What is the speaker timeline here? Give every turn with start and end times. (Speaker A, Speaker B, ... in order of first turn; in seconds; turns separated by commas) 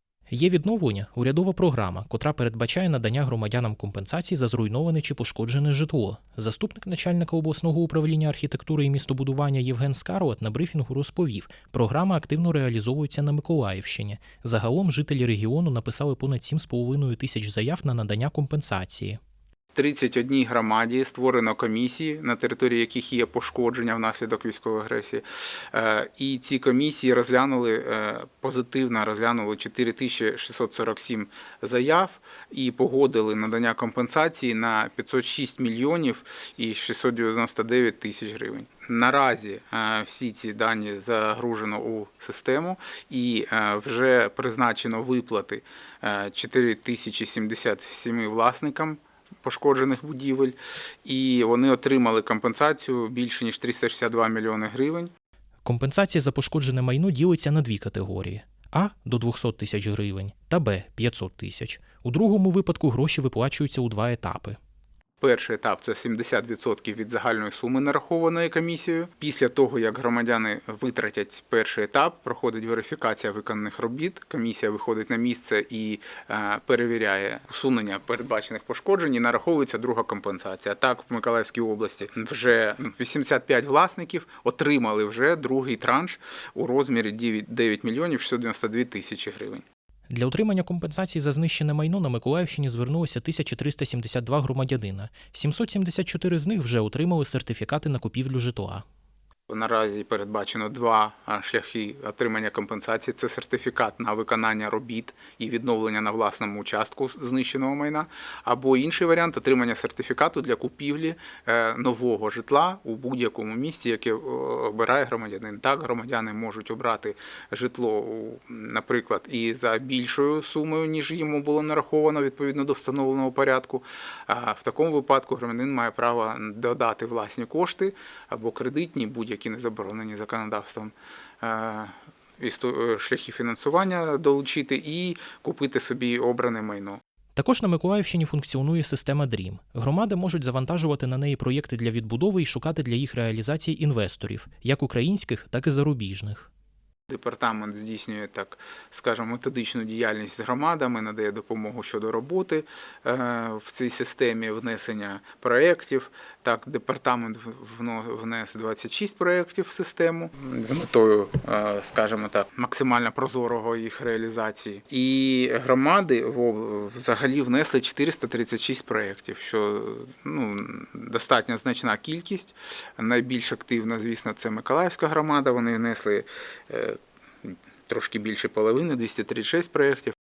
Speaker A: 0.3-19.2, Speaker B: 19.7-55.1, Speaker A: 55.6-64.6, Speaker B: 65.2-89.6, Speaker A: 90.1-98.8, Speaker B: 99.5-137.0, Speaker A: 137.4-146.5, Speaker B: 147.1-180.1